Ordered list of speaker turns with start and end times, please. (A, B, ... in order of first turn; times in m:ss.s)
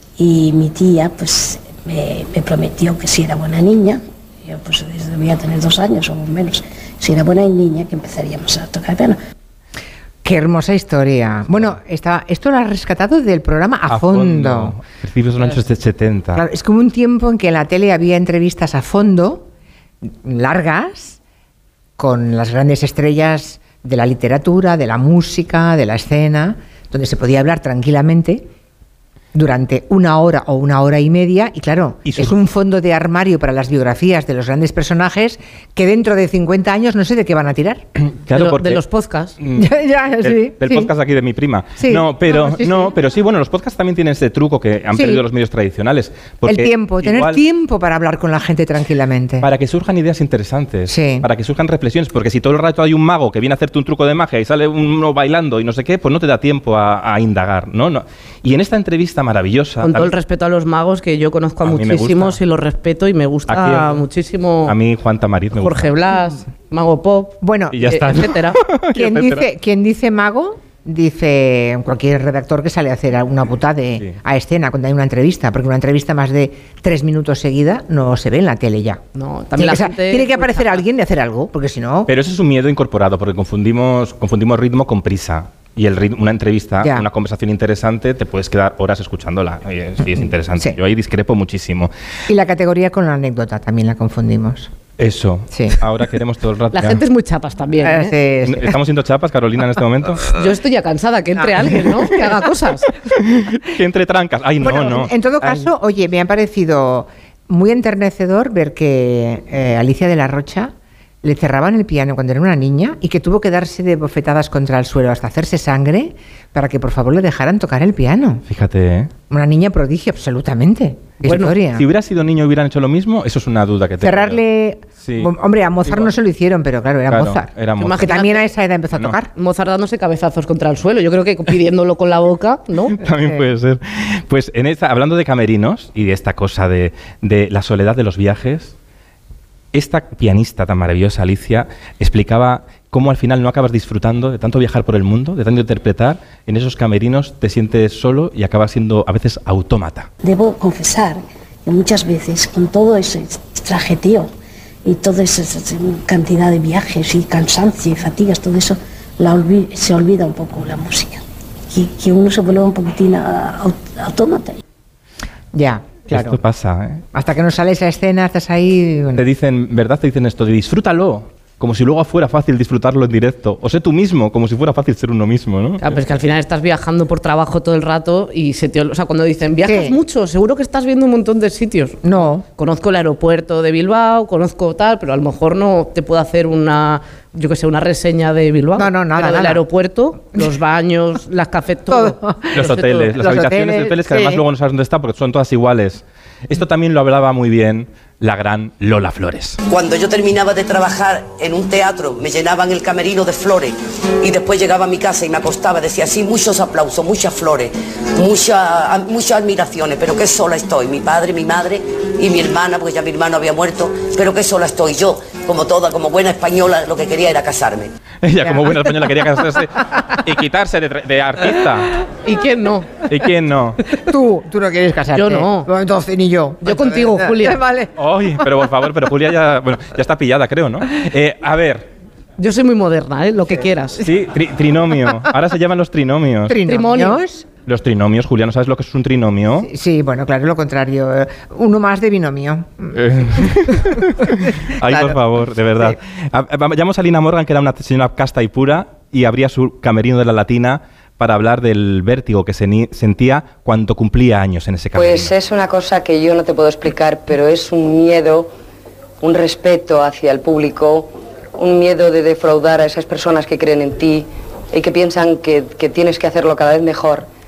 0:00.2-0:09.2 A
0:10.2-0:14.8 B
0:13.9-0:16.4 C
0:16.3-0:19.4 B
0:20.0-0:21.2 B
0:22.0-0:28.5 B
0:29.3-0:37.8 B
0:32.0-0:32.3 C
0:38.0-0:38.8 C
0:38.3-0:39.3 D
0:39.4-0:47.4 C
0:39.6-0:40.9 B
0:41.8-0:42.9 B
0:44.9-0:45.2 B
0:46.4-0:49.5 B
0:49.4-1:00.1 C
0:50.9-0:51.3 B
0:59.8-1:04.7 D
1:01.6-1:02.4 C
1:03.5-1:04.0 C
1:04.6-1:05.9 C
1:05.5-1:08.6 D
1:07.4-1:07.9 B
1:07.7-1:09.4 C
1:08.9-1:19.0 B
1:19.1-1:20.8 D
1:19.6-1:22.1 B
1:22.1-1:31.9 C
1:32.3-1:34.7 B
1:35.0-1:37.0 C
1:35.5-1:35.8 B
1:36.7-1:38.1 D
1:37.8-1:38.8 B
1:38.4-1:40.4 C
1:40.3-1:42.9 D
1:41.4-1:41.9 B
1:43.1-1:45.1 C
1:44.6-1:58.4 B
1:58.5-1:59.1 C
1:59.3-2:01.9 B
2:01.2-2:01.5 D
2:01.6-2:04.4 C
2:04.0-2:09.3 B
2:05.0-2:05.3 C
2:05.8-2:06.1 C
2:07.1-2:08.1 C
2:07.8-2:08.4 D
2:09.3-2:13.0 D
2:12.9-2:18.7 C
2:19.7-2:30.1 C
2:30.2-2:34.3 A
2:34.8-2:44.6 A
2:45.5-2:46.4 B
2:46.1-2:47.0 C
2:47.1-2:49.2 B
2:49.2-2:55.9 C
2:55.8-3:02.0 D
2:59.6-3:00.0 B
3:02.0-3:02.4 B
3:02.6-3:13.1 D
3:08.8-3:09.6 B
3:11.9-3:14.4 B
3:12.5-3:19.6 C
3:19.7-3:37.9 E
3:38.2-3:42.0 C
3:38.4-3:38.8 B
3:42.2-3:42.9 D
3:43.1-3:43.8 C
3:44.0-3:47.9 B
3:45.1-3:45.7 D
3:46.6-3:47.6 D
3:48.0-3:51.9 C
3:52.4-3:54.0 D
3:54.0-3:56.6 C
3:56.5-3:57.5 B
3:56.7-3:57.2 D
3:57.6-3:59.7 C
3:59.6-4:05.2 B
4:02.9-4:15.3 C
4:14.9-4:18.5 F
4:19.2-4:27.3 F